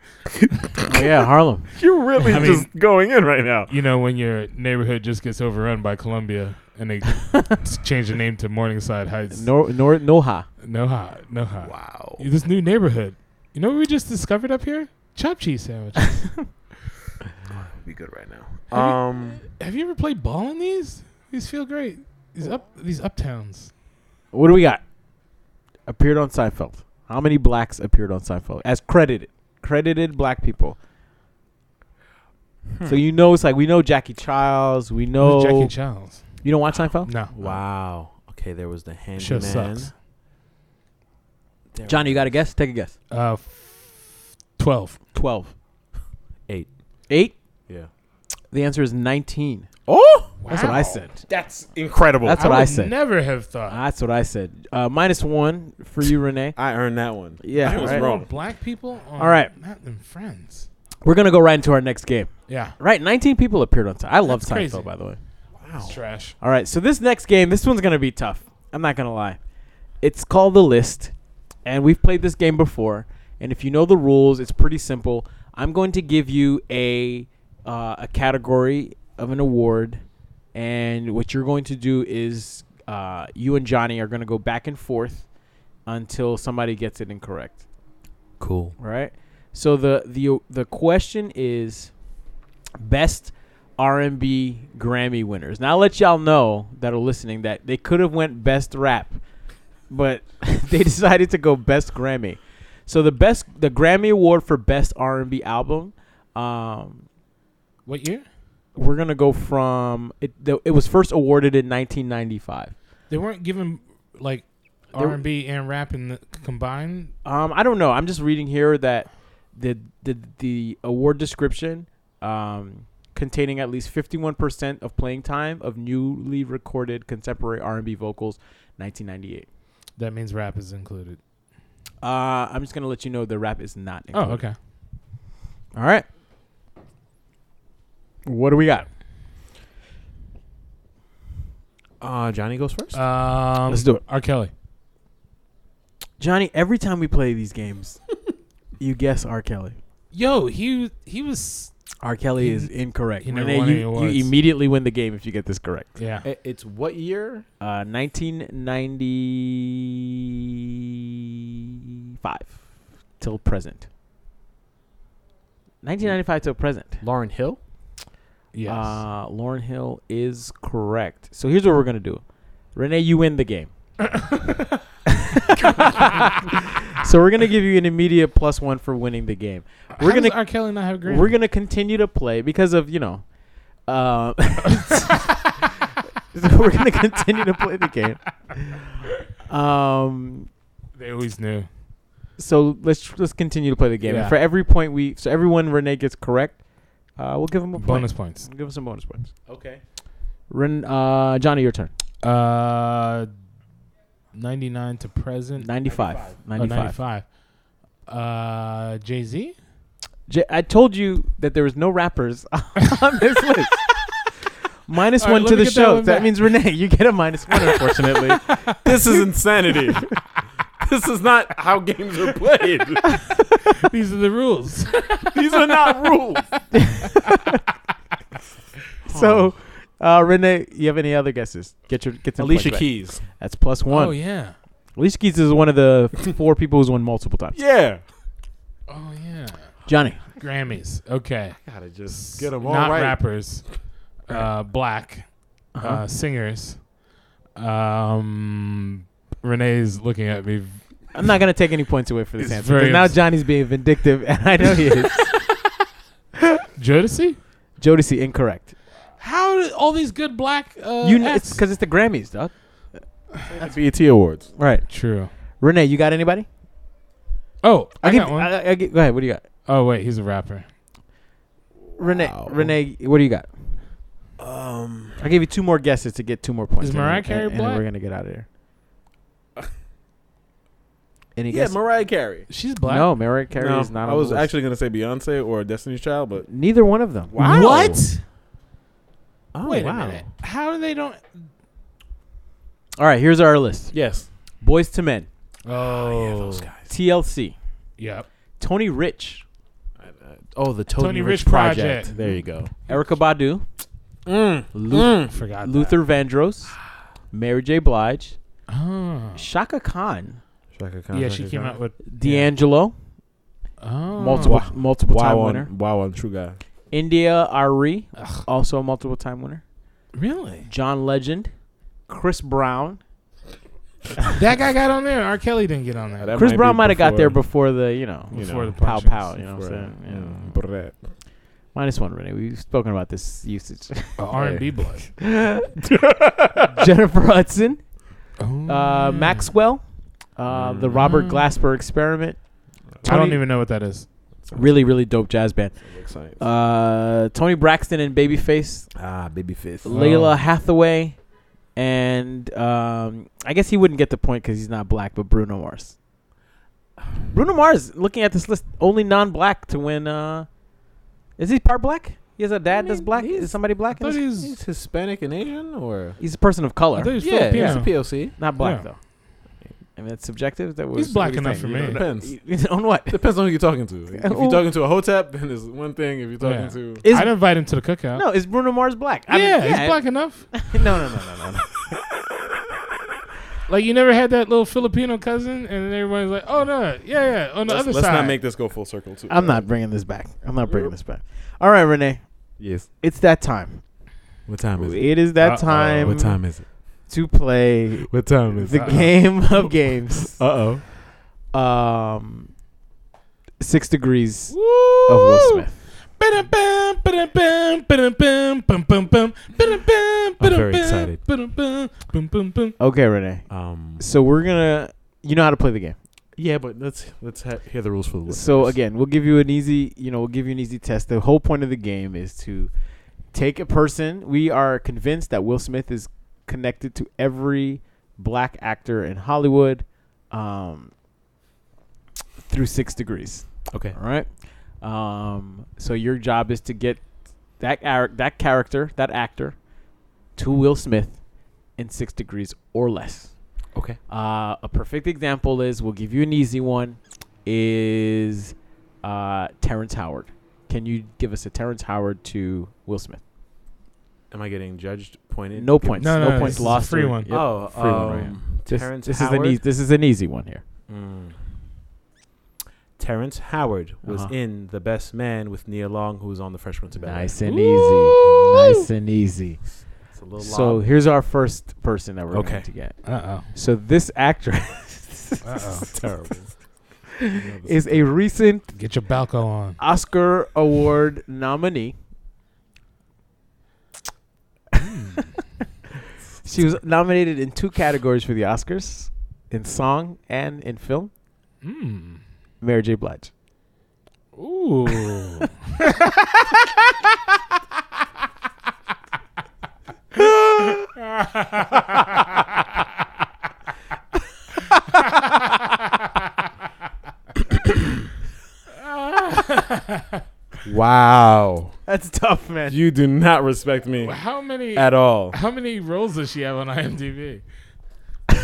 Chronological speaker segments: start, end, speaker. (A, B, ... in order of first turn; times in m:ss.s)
0:00.9-0:01.7 A
0:01.8-0:03.7 B
0:02.2-0:02.9 C
0:03.7-0:09.5 C
0:09.3-0:10.4 A
0:10.6-0:16.6 C
0:11.6-0:12.3 B
0:17.5-0:19.4 B
0:18.7-0:23.7 C
0:24.3-0:24.8 A
0:25.9-0:30.8 A
0:32.7-0:33.0 B
0:32.8-0:35.7 A
0:35.2-0:36.3 C
0:36.4-0:37.6 A
0:37.0-0:37.3 C
0:37.3-0:39.9 B
0:39.2-0:39.9 C
0:41.7-0:42.3 B
0:41.8-0:42.9 A
0:43.1-0:45.0 C
0:45.1-0:45.5 A
0:46.5-0:46.7 B
0:47.1-0:47.4 A
0:48.5-0:49.7 A
0:49.9-0:50.3 B
0:50.4-0:51.0 C
0:50.4-0:51.2 A
0:51.3-0:52.6 B
0:52.2-0:53.0 A
0:52.3-0:53.8 C
0:53.7-0:56.6 A
0:56.6-0:58.3 B
0:57.4-0:58.1 A
0:57.6-1:00.7 C
0:59.2-0:59.5 A
1:01.0-1:05.2 A
1:02.5-1:02.8 C
1:04.3-1:04.9 C
1:05.6-1:06.0 B
1:05.8-1:06.3 C
1:06.4-1:09.4 A
1:10.0-1:11.1 A
1:11.6-1:20.0 A
1:20.5-1:25.3 A
1:25.9-1:27.6 A
1:28.4-1:28.7 B
1:28.8-1:32.0 A
1:32.8-1:39.2 A
1:39.9-1:47.0 A
1:47.9-1:48.3 C
1:48.7-1:52.7 A
1:53.1-1:57.1 C
1:54.9-1:55.2 A
1:57.2-2:09.5 A
2:10.0-2:11.2 C
2:12.0-2:14.4 A
2:14.1-2:14.6 C
2:15.7-2:16.0 A
2:18.3-2:18.9 A
2:22.0-2:23.0 B
2:22.9-2:24.5 C
2:23.7-2:24.0 A
2:26.2-2:28.0 A
2:28.8-2:29.8 A
2:30.1-2:31.7 C
2:32.0-2:35.9 A
2:32.4-2:34.3 C
2:36.0-2:36.3 C
2:36.2-2:37.4 B
2:37.6-2:40.0 A
2:42.2-2:42.6 A
2:43.2-2:43.9 A
2:45.8-2:47.0 A
2:47.0-2:47.6 B
2:48.5-2:49.0 C
2:48.6-2:52.2 A
2:52.7-2:53.7 A
2:54.2-2:54.5 C
2:55.1-3:03.2 A
3:00.0-3:01.3 C
3:03.9-3:05.7 A
3:06.3-3:08.9 A
3:09.5-3:10.5 A
3:11.0-3:11.7 C
3:12.4-3:16.6 A
3:14.0-3:14.4 C
3:17.1-3:19.3 A
3:17.8-3:18.5 C
3:19.5-3:19.8 B
3:20.5-3:21.9 A
3:22.2-3:23.3 C
3:24.3-3:25.7 C
3:25.6-3:27.0 A
3:25.8-3:26.4 B
3:26.6-3:27.3 C
3:28.1-3:29.6 C
3:30.3-3:33.8 A
3:34.9-3:38.7 A
3:35.2-3:36.4 C
3:38.0-3:38.7 C
3:38.8-3:40.1 B
3:40.8-3:43.2 B
3:43.6-3:45.4 C
3:45.2-3:46.6 B
3:47.0-3:47.6 A
3:49.0-3:49.5 B
3:49.0-3:54.2 A
3:52.4-3:53.2 B
3:53.9-3:54.6 C
3:55.0-3:57.6 A
3:57.6-3:58.0 B
3:58.9-3:59.8 C
3:59.9-4:00.2 A
4:00.3-4:03.7 C
4:01.6-4:03.2 B
4:04.3-4:06.9 C
4:05.7-4:06.0 A
4:07.6-4:11.2 C
4:11.1-4:15.3 A
4:12.4-4:13.3 C
4:16.8-4:17.4 C
4:17.8-4:18.7 A
4:19.2-4:21.6 C
4:21.0-4:23.0 A
4:23.4-4:24.5 B
4:24.6-4:24.9 A
4:24.9-4:25.3 C
4:25.6-4:26.4 A
4:27.6-4:28.5 C
4:28.0-4:29.4 A
4:29.6-4:30.6 C
4:32.0-4:33.5 A
4:32.0-4:32.7 B
4:34.4-4:35.2 B
4:35.2-4:38.4 A
4:36.8-4:37.8 C
4:41.4-4:41.8 A
4:41.5-4:42.5 B
4:42.5-4:43.1 C
4:42.8-4:44.5 A
4:43.6-4:46.5 B
4:46.4-4:47.7 A
4:47.3-4:48.0 B
4:47.4-4:48.2 C
4:49.5-4:50.3 B
4:49.6-4:51.4 C
4:53.0-4:53.9 A
4:53.9-4:54.3 B
4:54.6-4:55.3 A
4:55.6-4:56.7 C
4:55.7-4:56.9 B
4:56.9-4:57.6 A
4:58.0-4:58.3 C
4:58.6-4:59.4 A
5:00.0-5:03.1 B
5:01.0-5:02.1 C
5:01.6-5:03.6 A
5:04.3-5:05.3 B
5:04.7-5:06.8 A
5:05.2-5:06.0 C
5:07.3-5:08.4 A
5:08.7-5:09.4 C
5:09.3-5:10.4 A
5:10.7-5:11.8 B
5:11.1-5:12.5 C
5:12.0-5:12.9 A
5:13.8-5:14.7 C
5:14.2-5:15.7 A
5:14.4-5:16.6 B
5:16.9-5:19.6 A
5:18.2-5:18.4 C
5:20.1-5:20.7 C
5:20.7-5:21.5 A
5:22.1-5:23.0 A
5:24.3-5:26.3 C
5:26.2-5:27.4 B
5:26.3-5:30.6 A
5:28.3-5:28.8 B
5:28.3-5:29.4 C
5:29.4-5:31.1 B
5:31.7-5:34.2 A
5:34.2-5:35.1 C
5:34.3-5:34.7 B
5:35.2-5:35.7 A
5:35.8-5:36.7 B
5:36.7-5:37.9 A
5:38.4-5:39.5 C
5:38.6-5:39.8 A
5:40.3-5:42.4 A
5:40.5-5:41.1 B
5:41.0-5:41.4 C
5:42.9-5:43.4 B
5:43.0-5:43.4 A
5:43.0-5:44.1 C
5:44.4-5:44.8 B
5:44.5-5:45.8 A
5:45.8-5:46.4 B
5:46.3-5:48.9 A
5:48.9-5:49.9 B
5:49.8-5:51.2 A
5:49.9-5:50.4 C
5:51.7-5:56.0 A
5:57.3-6:00.5 A
6:01.4-6:04.2 A
6:02.7-6:03.6 B
6:04.0-6:04.6 C
6:04.3-6:06.2 B
6:06.2-6:09.0 A
6:06.9-6:08.9 C
6:07.2-6:08.3 B
6:10.0-6:13.3 A
6:11.0-6:12.0 C
6:11.9-6:12.5 B
6:13.1-6:17.0 B
6:14.1-6:14.6 A
6:16.4-6:18.3 C
6:17.0-6:17.6 A
6:18.1-6:21.9 A
6:19.3-6:20.7 C
6:23.6-6:28.4 C
6:27.6-6:29.6 B
6:29.3-6:32.3 A
6:32.6-6:32.9 B
6:33.0-6:33.8 A
6:34.4-6:35.1 B
6:34.8-6:36.4 A
6:35.4-6:36.3 C
6:35.6-6:36.6 B
6:37.1-6:40.4 A
6:38.1-6:39.7 B
6:38.7-6:39.2 C
6:40.3-6:40.8 B
6:41.5-6:42.5 A
6:43.6-6:45.8 A
6:44.5-6:52.8 C
6:50.4-6:51.2 B
6:52.8-6:56.0 A
6:53.5-6:54.0 B
6:56.4-6:58.8 B
6:58.3-7:02.7 A
7:03.3-7:10.9 A
7:12.4-7:19.6 A
7:13.7-7:14.0 B
7:20.3-7:21.2 A
7:21.8-7:23.4 A
7:23.7-7:24.0 B
7:24.1-7:33.2 A
7:34.3-7:39.6 B
7:35.5-7:40.6 A
7:36.0-7:37.3 C
7:40.9-7:41.5 B
7:43.0-7:47.4 B
7:44.0-7:44.3 A
7:47.0-7:49.7 A
7:47.4-7:48.9 C
7:50.1-7:50.9 B
7:50.4-7:56.2 A
7:52.3-7:52.7 B
7:53.0-7:53.5 C
7:55.4-7:56.0 C
7:55.9-7:56.8 B
7:57.3-7:58.1 B
7:57.6-7:58.7 A
7:58.7-7:59.8 C
7:59.8-8:01.9 A
8:04.8-8:05.4 C
8:06.4-8:11.1 A
8:11.6-8:12.2 C
8:12.6-8:13.3 A
8:14.4-8:16.5 C
8:20.7-8:22.0 C
8:28.8-8:30.2 C
8:30.6-8:31.8 B
8:31.9-8:32.8 A
8:32.7-8:34.2 B
8:34.0-8:37.4 C
8:34.7-8:35.4 B